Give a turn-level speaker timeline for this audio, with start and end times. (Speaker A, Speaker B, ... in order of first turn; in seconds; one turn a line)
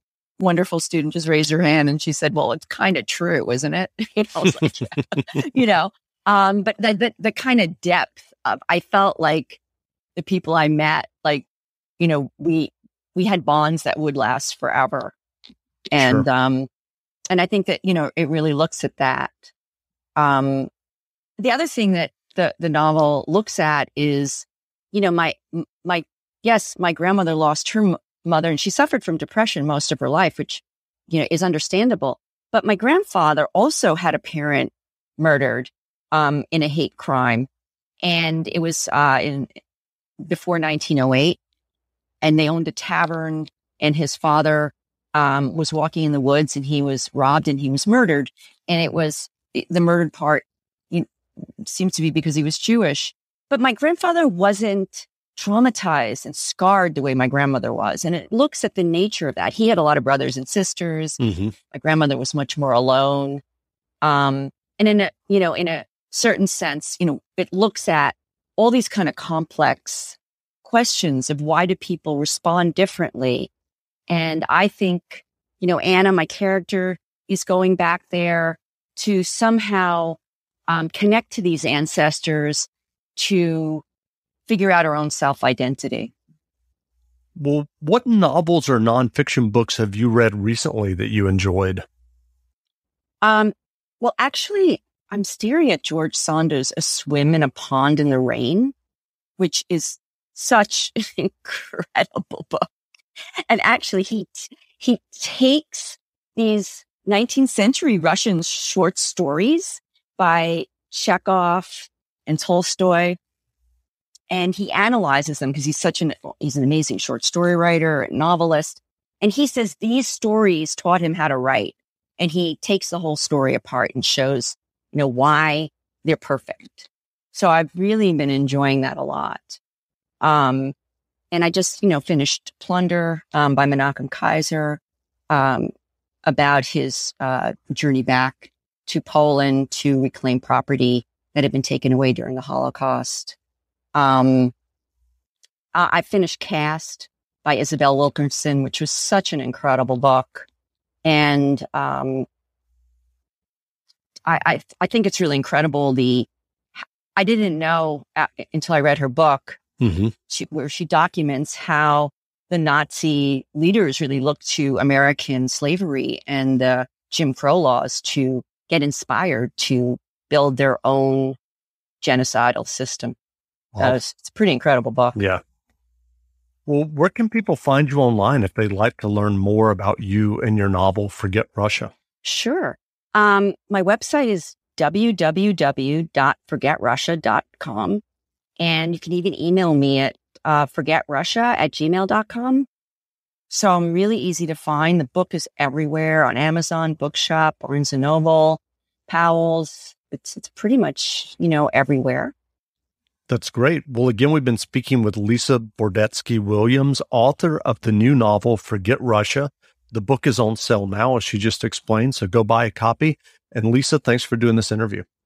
Speaker A: 0.4-9.6
Speaker A: 10.2-11.5
Speaker A: 12.0-15.1
Speaker A: 15.9-16.7
Speaker B: 16.0-16.2
Speaker A: 17.3-19.5
Speaker A: 20.2-20.7
Speaker A: 21.4-37.5
Speaker A: 38.0-39.5
Speaker A: 40.2-41.4
Speaker A: 42.2-51.1
Speaker A: 51.6-61.2
Speaker B: 61.2-61.5
Speaker A: 61.7-63.4
Speaker A: 64.0-73.5
Speaker A: 74.1-83.8
Speaker A: 84.5-86.1
Speaker B: 87.4-91.8
Speaker A: 93.2-98.7
Speaker A: 99.4-102.7
Speaker A: 103.5-113.2
Speaker A: 114.3-129.6
Speaker A: 130.2-130.7
Speaker A: 131.3-135.7
Speaker A: 136.3-143.4
Speaker A: 143.9-144.5
Speaker A: 145.7-150.5
Speaker A: 151.0-152.3
Speaker A: 154.3-159.6
Speaker B: 159.8-160.1
Speaker A: 160.3-171.4
Speaker A: 172.0-173.2
Speaker A: 173.8-175.2
Speaker B: 175.1-175.4
Speaker B: 176.7-181.9
Speaker A: 182.2-188.0
Speaker A: 188.6-192.7
Speaker A: 193.5-202.3
Speaker B: 203.3-215.1